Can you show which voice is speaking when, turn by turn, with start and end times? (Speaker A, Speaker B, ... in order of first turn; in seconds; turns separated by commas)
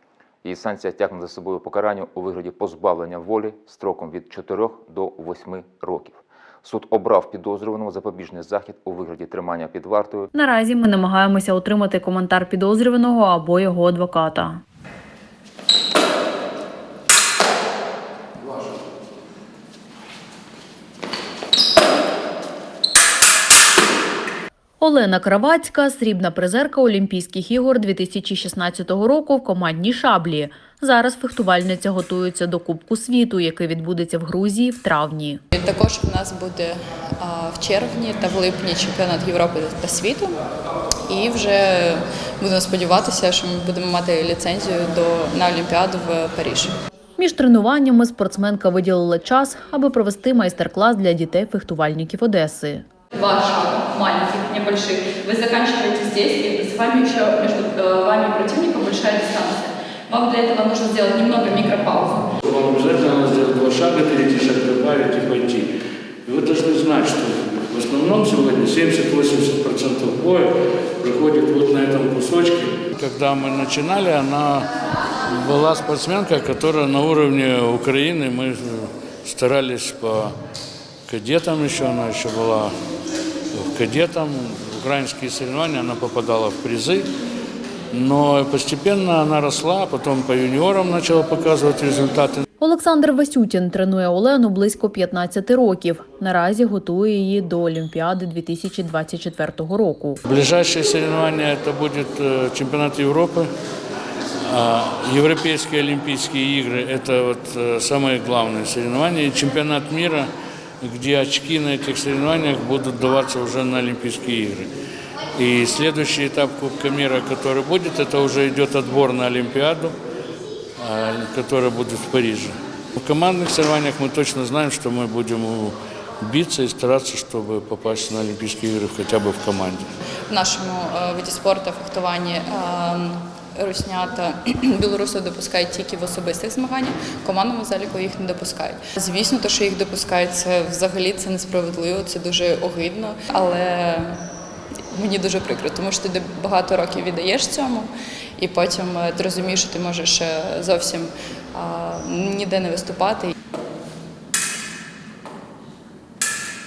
Speaker A: 0.4-10.3, Speaker B: 10.3-14.6, Speaker B: 24.8-35.4, Speaker C: 35.5-40.4, Speaker C: 41.0-46.8, Speaker B: 47.2-52.9, Speaker C: 53.1-62.2, Speaker D: 62.4-65.7, Speaker D: 66.2-74.7, Speaker D: 75.4-80.3, Speaker D: 81.0-82.7, Speaker D: 83.5-87.1, Speaker D: 87.9-92.4, Speaker B: 92.6-100.2, Speaker D: 100.2-103.5, Speaker D: 104.5-110.3, Speaker D: 110.8-114.7, Speaker D: 115.3-119.9, Speaker D: 120.8-129.8, Speaker C: 130.3-144.2, Speaker C: 144.9-153.3